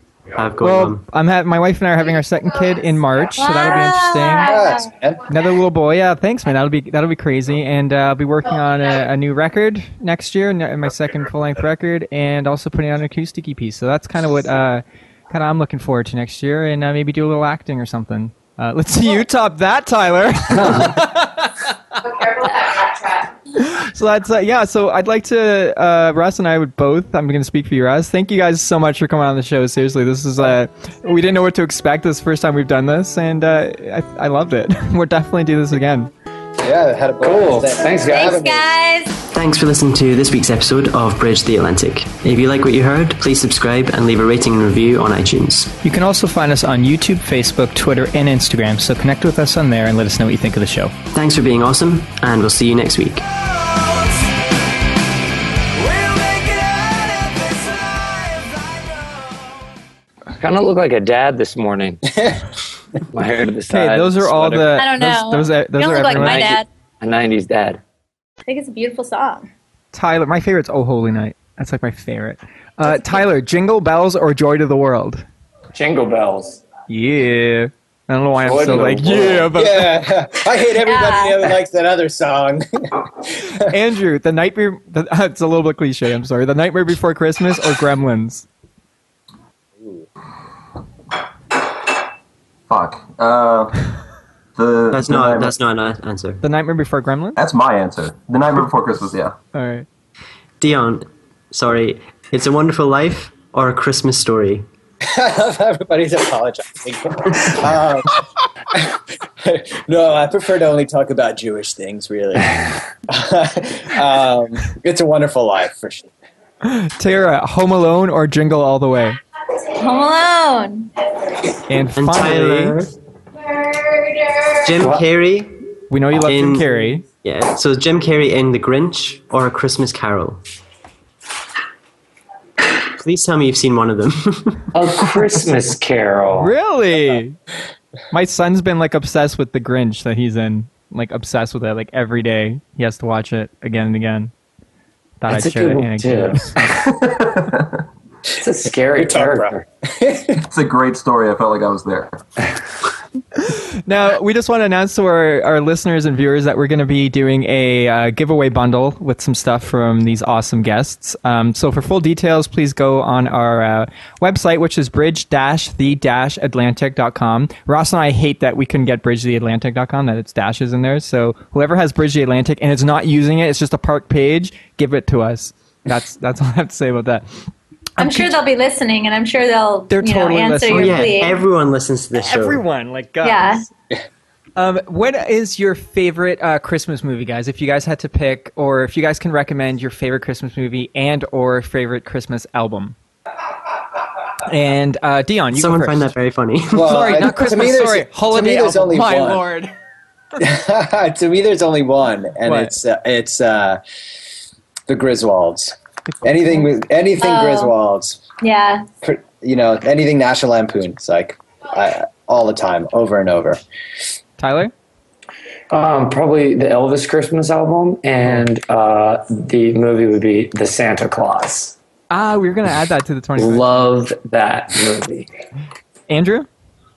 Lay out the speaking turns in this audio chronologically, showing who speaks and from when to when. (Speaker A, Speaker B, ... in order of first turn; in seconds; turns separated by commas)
Speaker A: 0.3-1.0, Speaker B: 0.6-4.5, Speaker C: 3.4-4.9, Speaker D: 4.4-5.2, Speaker B: 5.3-21.6, Speaker B: 23.6-36.1, Speaker D: 36.6-38.7, Speaker E: 37.2-38.4, Speaker C: 38.0-39.2, Speaker A: 39.3-45.8, Speaker B: 45.8-50.9, Speaker A: 51.1-53.2, Speaker E: 60.4-62.0, Speaker E: 63.1-64.7, Speaker B: 63.7-66.6, Speaker C: 64.8-66.7, Speaker E: 66.1-67.8, Speaker C: 68.5-69.5, Speaker B: 69.9-75.2, Speaker C: 72.9-73.2, Speaker E: 75.7-76.6, Speaker B: 76.9-80.0, Speaker E: 78.4-79.5, Speaker D: 79.5-83.5, Speaker C: 80.8-81.5, Speaker B: 83.6-88.5, Speaker F: 92.7-93.9, Speaker F: 94.6-95.5, Speaker A: 94.9-96.4, Speaker B: 96.4-97.4, Speaker F: 97.4-99.4, Speaker B: 99.5-99.9, Speaker A: 100.6-104.7, Speaker D: 105.1-116.1, Speaker B: 116.6-119.2, Speaker C: 119.8-120.9, Speaker B: 121.7-122.8, Speaker A: 122.0-122.9, Speaker C: 123.8-124.4, Speaker A: 124.6-125.6, Speaker E: 124.8-125.0, Speaker B: 125.9-127.0, Speaker A: 126.2-126.7, Speaker A: 127.2-130.4, Speaker A: 132.9-134.8, Speaker E: 134.7-136.5, Speaker B: 136.4-137.4, Speaker B: 138.1-144.3, Speaker B: 145.2-146.5, Speaker E: 145.3-146.9, Speaker F: 147.1-147.7, Speaker E: 148.4-149.7, Speaker D: 149.0-150.4, Speaker F: 150.4-152.2, Speaker B: 153.3-177.2, Speaker B: 178.0-178.3, Speaker C: 178.0-181.4, Speaker B: 179.9-181.2, Speaker A: 180.7-182.6, Speaker B: 182.2-183.6, Speaker C: 183.2-183.7, Speaker B: 184.6-192.9, Speaker B: 194.5-196.1, Speaker A: 195.5-197.1, Speaker D: 196.7-199.5, Speaker B: 196.8-199.7, Speaker D: 200.4-203.8, Speaker B: 202.4-202.7, Speaker D: 204.9-208.2, Speaker C: 207.2-207.7, Speaker C: 208.4-208.9, Speaker D: 209.0-213.6, Speaker B: 214.4-214.7, Speaker E: 215.7-221.8, Speaker B: 222.1-223.7, Speaker E: 223.4-225.3, Speaker B: 226.1-226.5